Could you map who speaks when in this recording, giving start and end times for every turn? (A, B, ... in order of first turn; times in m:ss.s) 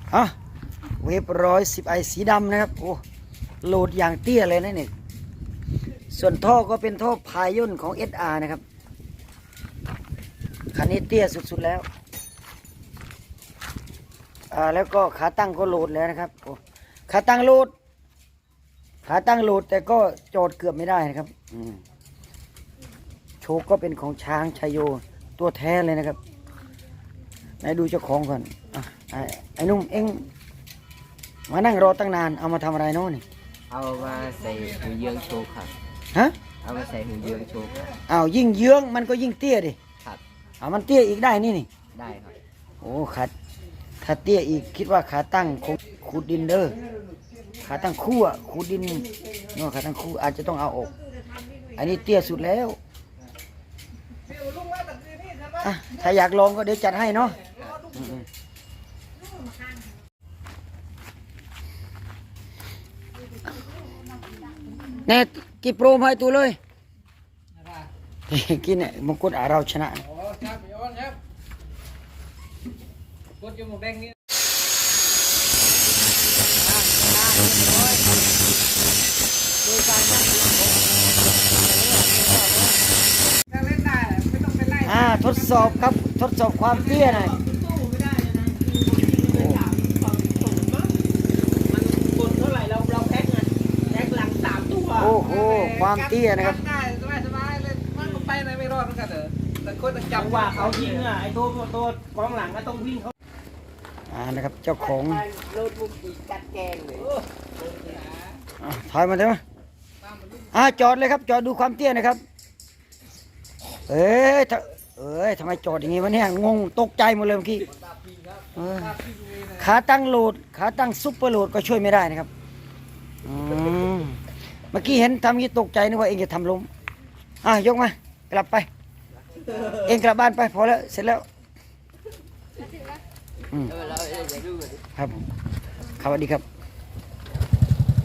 0:01.0-0:03.0 A
0:03.6-0:04.9 A
0:06.1-0:08.6 A
0:10.7-0:11.8 A
0:14.5-0:17.7 A
0:19.0-0:21.8 A
0:23.4-0:26.2 A
0:27.6-0:30.2 A
0:31.5-0:33.2 A
0:33.7-0:35.7 B
0:36.1-0:36.4 A
0:36.6-0:38.0 B
0:38.1-0:39.8 A
0:40.6-0:41.7 A
0:41.9-0:42.4 B
0:42.8-0:43.3 A
0:44.0-0:46.8 A
0:47.6-0:51.0 A
0:51.1-0:51.6 C
0:51.6-0:52.8 A
0:54.2-0:55.6 C
0:55.6-0:58.2 A
0:57.7-0:58.0 C
0:59.2-0:59.9 C
1:04.9-1:06.6 A
1:08.3-1:10.0 A
1:10.2-1:11.2 C
1:13.4-1:14.1 C
1:16.7-1:18.0 D
1:19.6-1:20.7 D
1:21.5-1:22.8 D
1:23.5-1:25.3 C
1:24.8-1:27.4 A
1:27.1-1:31.0 D
1:29.2-1:29.6 A
1:31.7-1:35.2 D
1:35.0-1:36.7 A
1:35.2-1:41.0 C
1:38.0-1:38.3 D
1:40.1-1:43.1 D
1:44.1-1:45.2 A
1:44.9-1:47.1 D
1:45.5-1:47.1 B
1:47.8-1:48.2 C
1:48.6-1:49.4 A
1:50.0-1:50.4 C
1:50.5-1:52.2 A
1:53.9-1:57.7 A
1:58.5-2:02.3 A
1:59.0-1:59.4 C
2:03.2-2:04.2 A
2:04.7-2:06.7 A
2:07.4-2:08.7 A
2:09.7-2:11.2 A
2:13.5-2:13.8 A
2:13.7-2:14.8 B
2:14.9-2:15.2 A
2:16.0-2:16.4 A